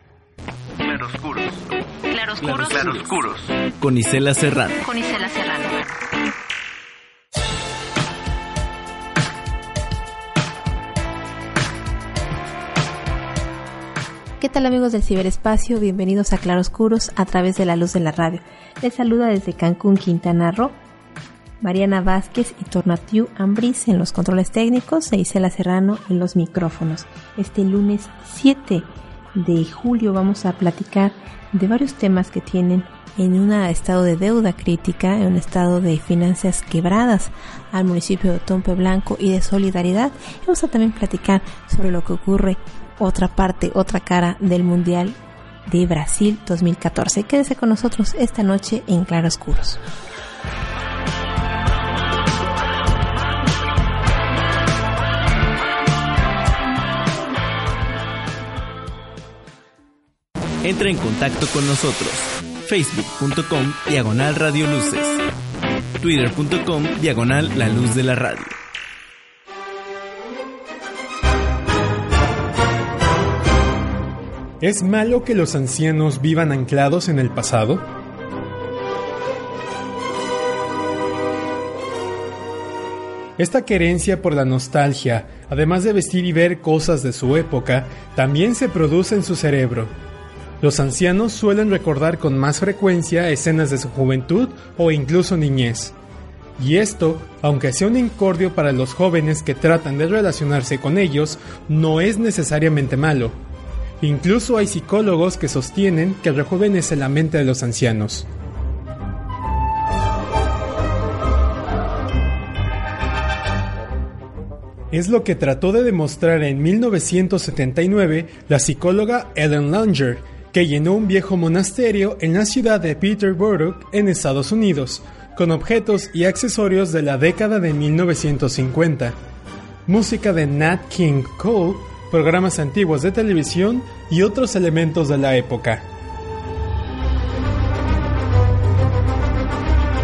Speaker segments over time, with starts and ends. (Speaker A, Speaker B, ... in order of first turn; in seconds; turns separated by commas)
Speaker A: 0.8-1.6, Speaker B: 2.1-3.1, Speaker A: 2.4-4.8, Speaker B: 4.8-5.9, Speaker C: 14.4-20.7, Speaker C: 21.6-49.8, Speaker A: 60.6-65.2, Speaker A: 66.0-68.6, Speaker D: 74.6-77.9, Speaker D: 83.4-89.9, Speaker D: 90.6-95.9, Speaker D: 96.6-103.3, Speaker D: 104.0-108.2, Speaker D: 114.9-129.1, Speaker D: 129.8-135.8